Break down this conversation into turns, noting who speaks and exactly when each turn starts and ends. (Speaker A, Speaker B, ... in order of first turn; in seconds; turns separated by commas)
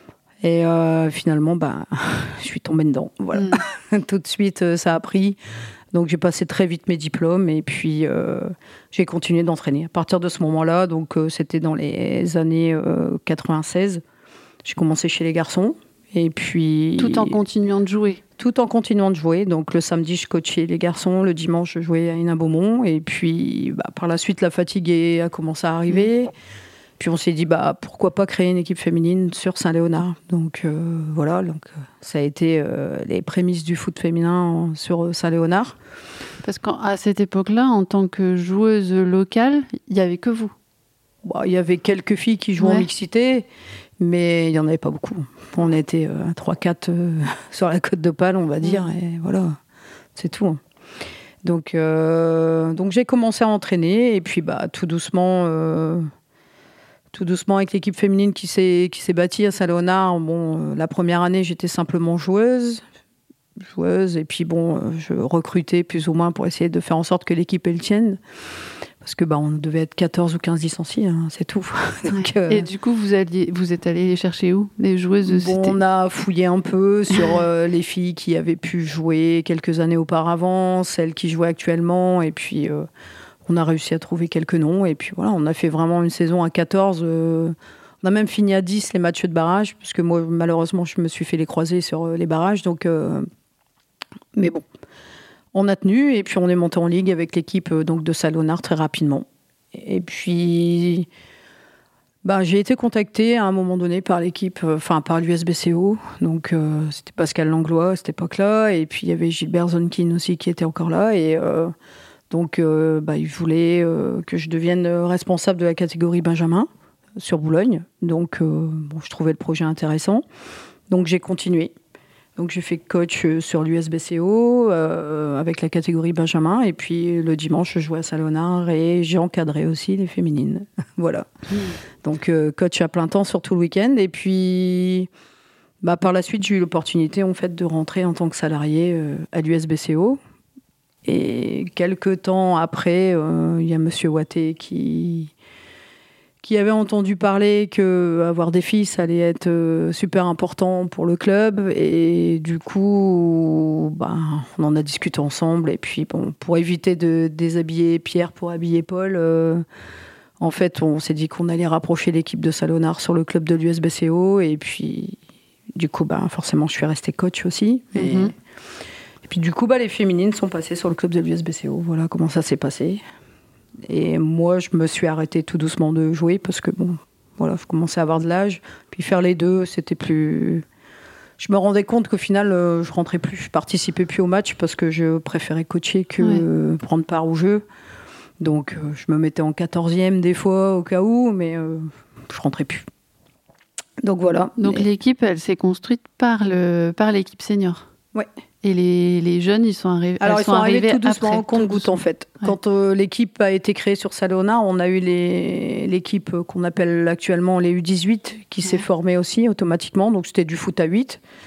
Speaker A: 0.4-5.4, Speaker B: 3.3-3.6, Speaker A: 5.9-14.0, Speaker A: 14.6-17.4, Speaker B: 17.0-18.2, Speaker A: 18.4-26.3, Speaker A: 27.0-35.8, Speaker B: 36.4-40.5, Speaker A: 41.2-43.5, Speaker B: 42.6-42.9, Speaker A: 44.0-49.6, Speaker B: 48.6-48.9, Speaker A: 50.1-50.6, Speaker A: 51.4-56.1, Speaker A: 57.1-62.8, Speaker A: 63.6-68.2, Speaker A: 69.0-72.7, Speaker B: 72.1-75.8, Speaker A: 75.2-82.9, Speaker A: 83.4-93.3, Speaker A: 94.3-94.6, Speaker A: 95.5-101.1, Speaker A: 102.2-111.7, Speaker A: 112.3-116.7, Speaker A: 117.2-120.2, Speaker A: 120.9-121.7, Speaker A: 122.3-131.3, Speaker A: 132.0-135.1, Speaker A: 135.8-140.2, Speaker A: 141.0-145.3, Speaker A: 146.4-159.6, Speaker A: 160.4-165.2, Speaker A: 165.7-168.3, Speaker B: 167.9-168.3, Speaker A: 169.2-173.0, Speaker A: 173.8-180.6, Speaker A: 181.4-187.6, Speaker A: 188.4-192.8, Speaker A: 194.0-194.8, Speaker B: 194.6-197.9, Speaker B: 198.6-202.5, Speaker A: 200.2-211.2